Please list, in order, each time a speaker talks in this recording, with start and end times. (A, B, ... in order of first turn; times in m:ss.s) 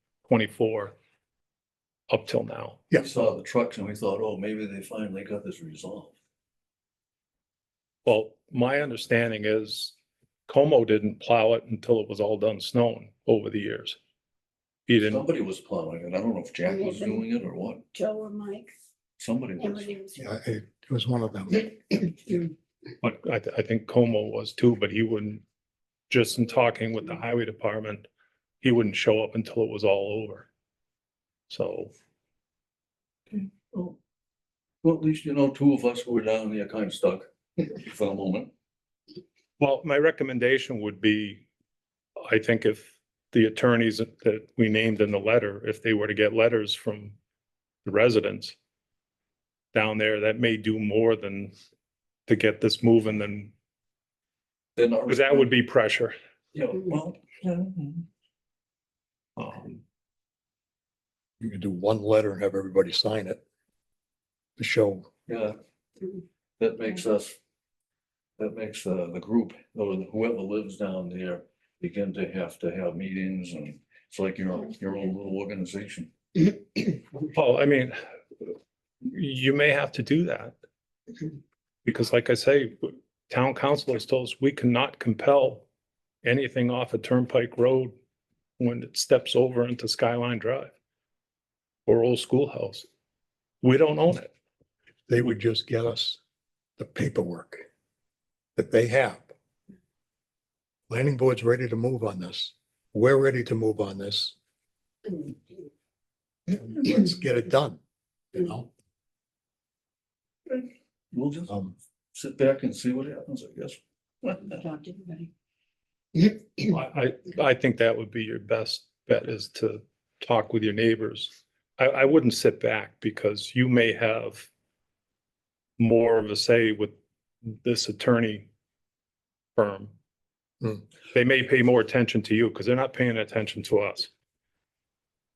0:00.3-0:00.9 A
0:02.1-0:02.8 A
0:02.9-0:06.2 B
0:08.0-0:09.9 A
0:10.5-0:14.0 A
0:14.9-0:15.2 A
0:15.0-0:17.9 B
0:16.7-0:17.2 C
0:17.9-0:18.7 C
0:19.2-0:20.0 B
0:19.6-0:20.2 C
0:20.2-0:22.4 D
0:23.0-0:25.4 A
0:26.1-0:28.1 A
0:28.6-0:30.5 A
0:31.5-0:31.9 A
0:33.3-0:34.0 B
0:34.8-0:38.5 B
0:39.6-0:41.4 A
0:42.2-0:47.2 A
0:47.8-0:48.6 A
0:49.7-0:51.5 A
0:52.3-0:53.5 A
0:54.8-0:55.5 B
0:55.1-0:56.2 A
0:56.5-0:58.1 B
0:59.4-0:59.8 A
1:01.4-1:03.4 D
1:04.6-1:05.1 D
1:05.3-1:05.6 B
1:06.6-1:07.4 B
1:08.4-1:16.5 B
1:17.2-1:20.5 A
1:21.8-1:25.7 A
1:26.2-1:27.9 A
1:28.6-1:30.7 A
1:31.9-1:32.9 A
1:33.6-1:34.3 A
1:35.1-1:36.2 D
1:36.8-1:37.7 D
1:38.6-1:39.3 D
1:40.9-1:44.4 D
1:46.5-1:47.8 D
1:48.3-1:48.7 D
1:50.5-1:51.6 B
1:51.5-1:51.7 D
1:52.1-1:54.6 B
1:54.8-1:55.3 C
1:56.6-2:04.5 A
2:05.8-2:08.5 A
2:09.6-2:09.9 A
2:11.1-2:14.1 A